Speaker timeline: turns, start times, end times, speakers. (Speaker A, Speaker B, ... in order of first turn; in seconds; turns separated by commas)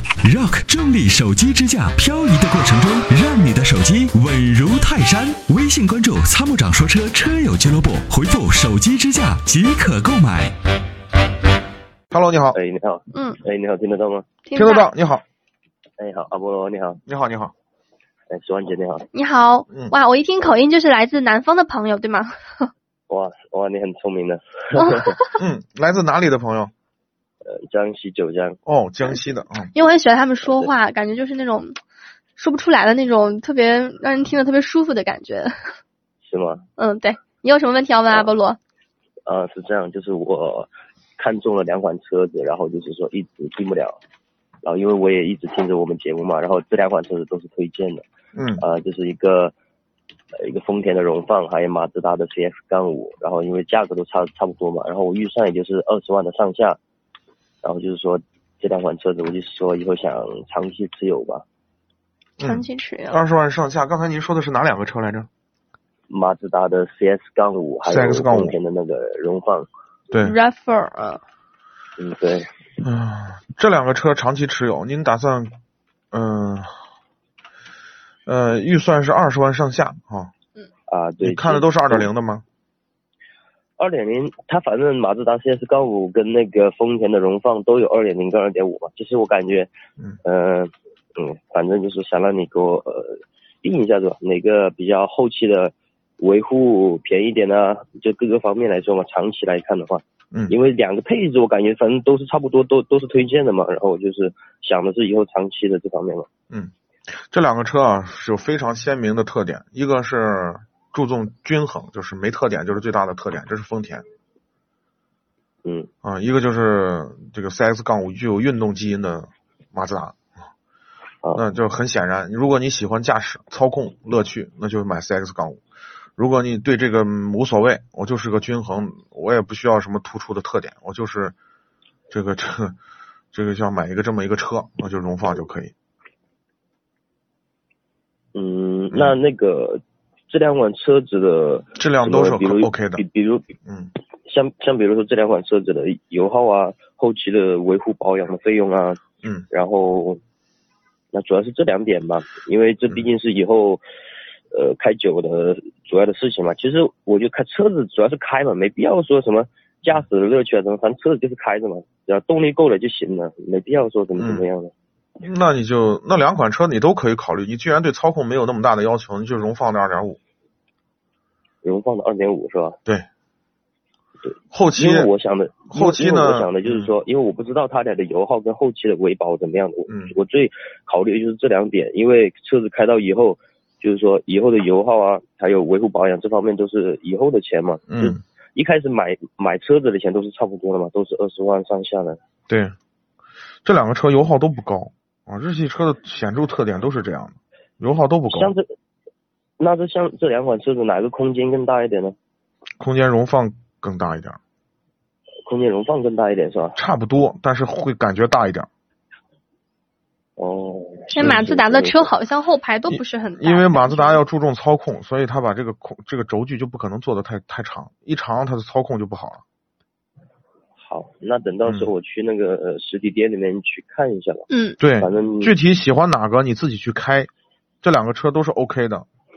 Speaker A: 0.2-10.5, Speaker B: 12.1-12.6, Speaker C: 12.5-14.3, Speaker D: 13.1-13.4, Speaker D: 14.4-14.9, Speaker B: 14.5-15.2, Speaker C: 16.0-17.0, Speaker B: 17.1-17.5, Speaker C: 18.3-19.1, Speaker D: 19.1-22.7, Speaker B: 19.7-19.9, Speaker C: 23.1-25.3, Speaker D: 24.8-25.3, Speaker B: 25.3-26.7, Speaker C: 27.4-28.6, Speaker B: 28.6-29.7, Speaker D: 29.7-31.7, Speaker C: 30.4-30.7, Speaker D: 32.4-35.5, Speaker C: 36.2-36.6, Speaker D: 36.8-38.6, Speaker C: 38.1-38.3, Speaker C: 39.2-44.0, Speaker C: 44.6-48.0, Speaker B: 48.3-48.6, Speaker C: 48.6-49.5, Speaker C: 50.3-56.8, Speaker C: 57.6-61.4, Speaker B: 62.4-65.3, Speaker D: 62.4-63.2, Speaker C: 66.1-69.7, Speaker B: 67.8-68.6, Speaker B: 70.1-70.3, Speaker D: 70.2-71.2, Speaker C: 72.0-72.5, Speaker B: 72.8-75.5, Speaker B: 76.1-76.7, Speaker B: 78.2-80.3, Speaker C: 80.9-82.1, Speaker B: 81.2-82.4, Speaker C: 83.8-89.7, Speaker C: 90.2-106.3, Speaker B: 107.3-114.0, Speaker C: 115.6-115.9, Speaker B: 116.0-120.2, Speaker B: 121.3-125.6, Speaker B: 126.2-131.3, Speaker B: 132.1-132.8, Speaker B: 133.3-135.7, Speaker C: 138.3-143.6, Speaker B: 138.9-139.2, Speaker B: 141.7-143.0, Speaker B: 143.7-143.9, Speaker C: 144.2-150.2, Speaker C: 151.1-153.8, Speaker C: 154.5-164.7, Speaker B: 164.2-164.4, Speaker B: 165.2-170.2, Speaker C: 171.6-172.8, Speaker C: 174.2-192.2, Speaker B: 174.5-175.1, Speaker B: 175.7-176.9, Speaker B: 179.9-180.1, Speaker B: 187.9-188.2, Speaker B: 192.5-192.7, Speaker B: 193.6-198.5, Speaker C: 198.3-198.7, Speaker C: 199.6-202.1, Speaker B: 202.8-204.4, Speaker C: 205.4-206.8, Speaker B: 206.8-208.7, Speaker C: 210.4-212.1, Speaker D: 211.1-214.2, Speaker B: 212.9-219.4, Speaker C: 220.8-224.4, Speaker B: 221.6-221.9, Speaker D: 224.5-224.8, Speaker B: 224.8-227.3, Speaker C: 225.0-225.5, Speaker B: 227.8-229.1